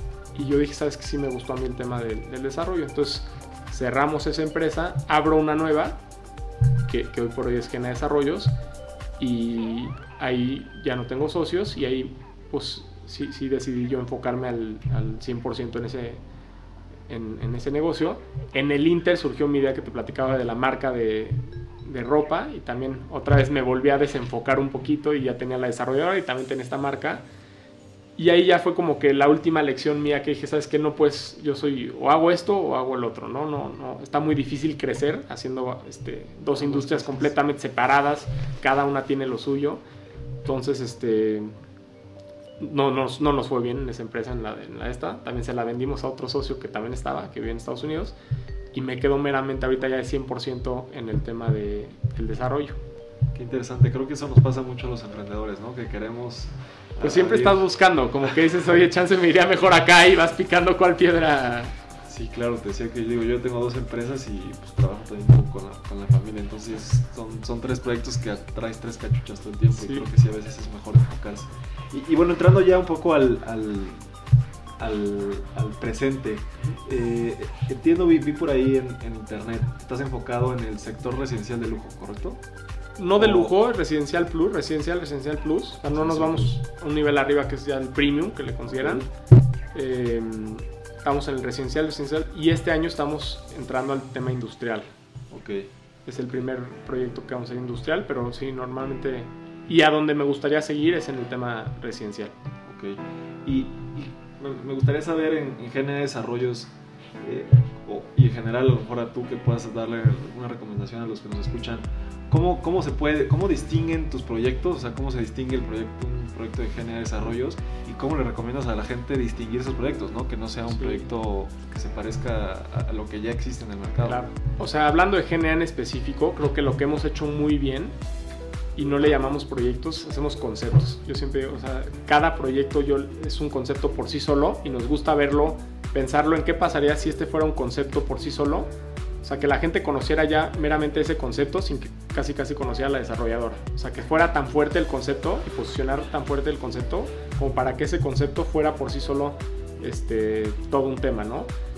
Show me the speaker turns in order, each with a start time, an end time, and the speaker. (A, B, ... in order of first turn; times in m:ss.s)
0:00.3-0:06.0 A
0:06.9-0:08.5 A
0:09.2-0:16.2 A
0:17.1-0:27.2 A
0:28.2-0:39.8 A
0:36.6-0:37.4 B
0:40.4-0:41.5 A
0:42.6-0:48.1 A
0:48.7-0:52.8 A
0:53.3-0:57.6 B
0:57.0-1:01.7 A
1:02.1-1:14.1 B
1:09.7-1:10.0 A
1:14.8-1:22.4 B
1:23.0-1:29.0 A
1:23.2-1:23.5 B
1:25.9-1:26.6 B
1:28.7-1:29.1 B
1:29.7-1:34.9 A
1:35.3-1:35.7 B
1:36.0-1:42.3 A
1:42.6-1:46.7 B
1:47.2-2:04.2 B
2:00.7-2:01.1 A
2:04.0-2:08.0 A
2:08.8-2:18.7 A
2:19.2-2:31.5 A